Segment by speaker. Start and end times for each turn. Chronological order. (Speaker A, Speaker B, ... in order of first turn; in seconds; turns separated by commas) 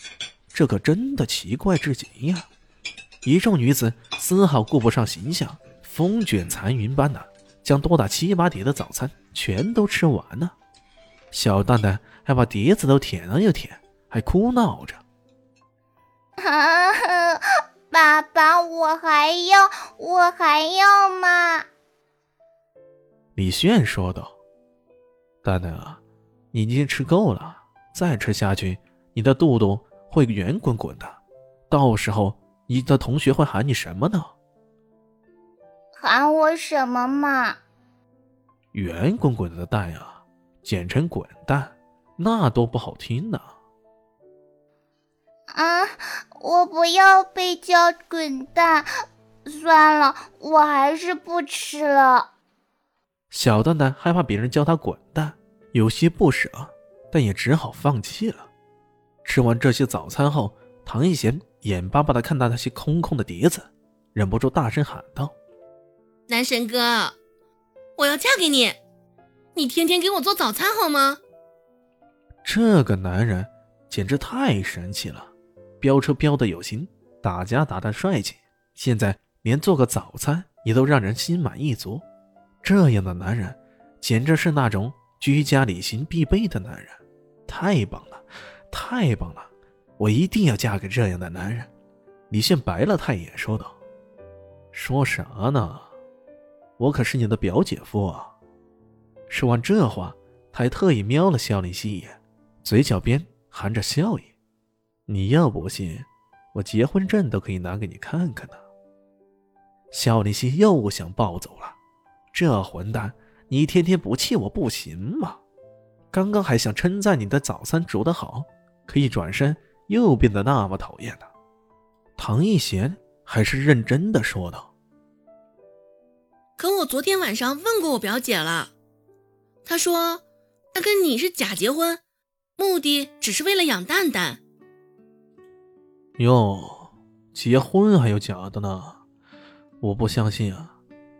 Speaker A: 0.5-2.5, Speaker A: 3.2-10.5, Speaker A: 11.3-15.0, Speaker B: 16.4-21.7, Speaker A: 23.4-24.3, Speaker A: 25.4-26.0, Speaker A: 26.5-31.2, Speaker A: 31.7-34.3, Speaker B: 36.0-37.6, Speaker A: 38.7-43.5, Speaker B: 45.5-48.9, Speaker B: 49.5-52.3, Speaker A: 53.3-58.5, Speaker A: 59.2-65.3, Speaker C: 66.3-67.1, Speaker C: 68.0-68.8, Speaker C: 69.5-71.2, Speaker A: 72.4-82.0, Speaker A: 82.6-91.7, Speaker A: 92.3-93.8, Speaker A: 94.7-95.9, Speaker A: 96.8-98.3, Speaker A: 99.3-104.3, Speaker A: 105.1-108.6, Speaker A: 109.9-111.8, Speaker A: 112.3-115.4, Speaker A: 116.1-121.3, Speaker A: 122.2-124.7, Speaker C: 126.6-128.7, Speaker C: 129.6-132.0, Speaker C: 132.6-134.4, Speaker A: 136.2-139.0, Speaker A: 139.8-140.7